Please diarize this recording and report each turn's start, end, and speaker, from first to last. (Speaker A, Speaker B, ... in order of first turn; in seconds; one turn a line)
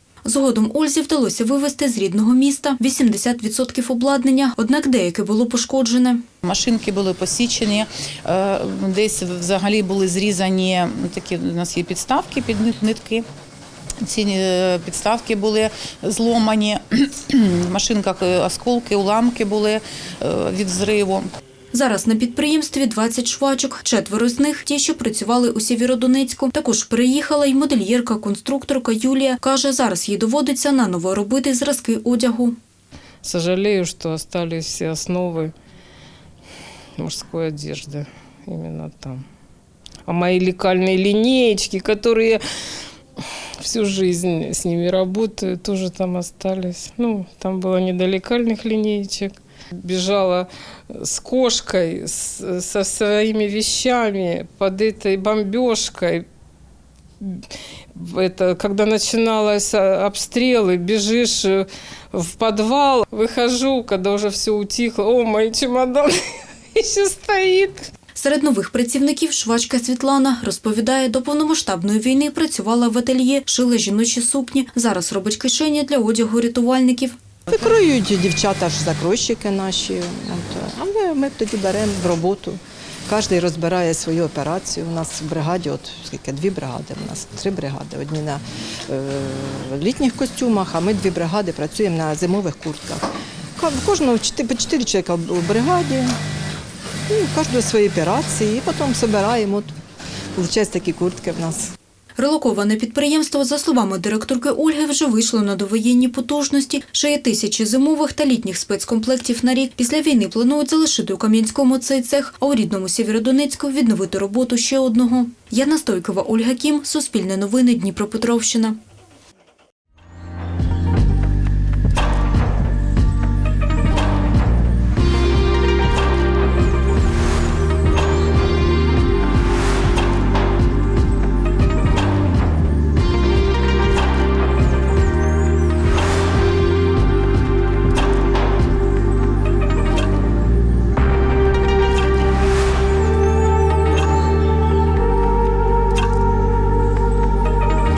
Speaker A: 0.2-6.2
Speaker B: 6.4-13.2
Speaker B: 14.0-21.3
Speaker A: 21.7-32.6
Speaker C: 33.2-35.5
Speaker C: 37.0-39.2
Speaker C: 40.0-42.4
Speaker C: 43.6-56.2
Speaker C: 57.9-66.1
Speaker C: 66.7-67.8
Speaker A: 68.2-77.2
Speaker D: 77.5-93.0
Speaker D: 93.6-96.1
Speaker D: 97.1-99.7
Speaker D: 100.3-101.7
Speaker A: 102.2-118.8